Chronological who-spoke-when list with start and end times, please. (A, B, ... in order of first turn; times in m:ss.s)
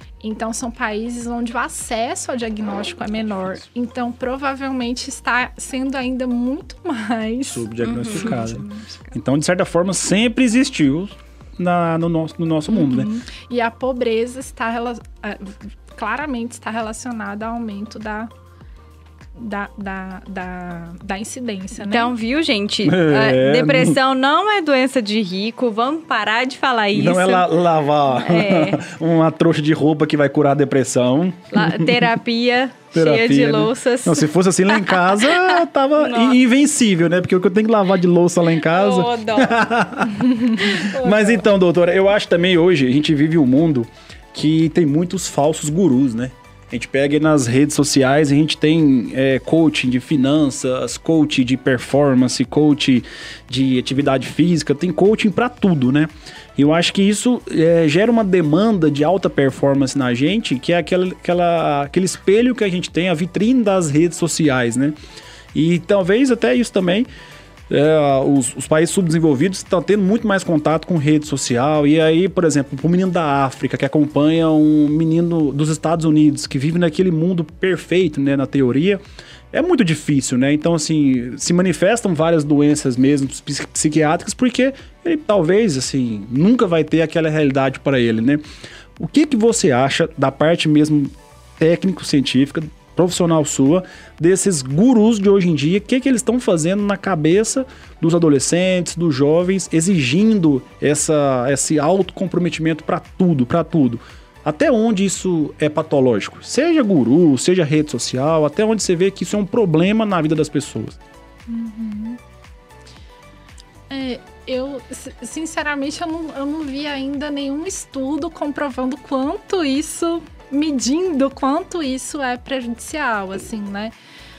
0:00.2-0:09.1 A
0:07.5-0:13.1 B
0:07.8-0:08.5 C
0:12.7-0:18.3 A
0:19.4-0:22.1 A
0:21.8-0:27.5 C
0:22.8-0:24.0 B
0:26.9-0:32.1 B
0:28.1-0:28.8 C
0:31.5-0:36.4 C
0:32.9-1:04.9 B
0:38.5-0:39.7 C
0:40.6-0:41.5 C
1:05.5-1:07.1 B
1:07.7-1:28.4 B
1:29.0-1:51.0 B
1:51.5-1:52.2 A
1:53.9-2:03.9 A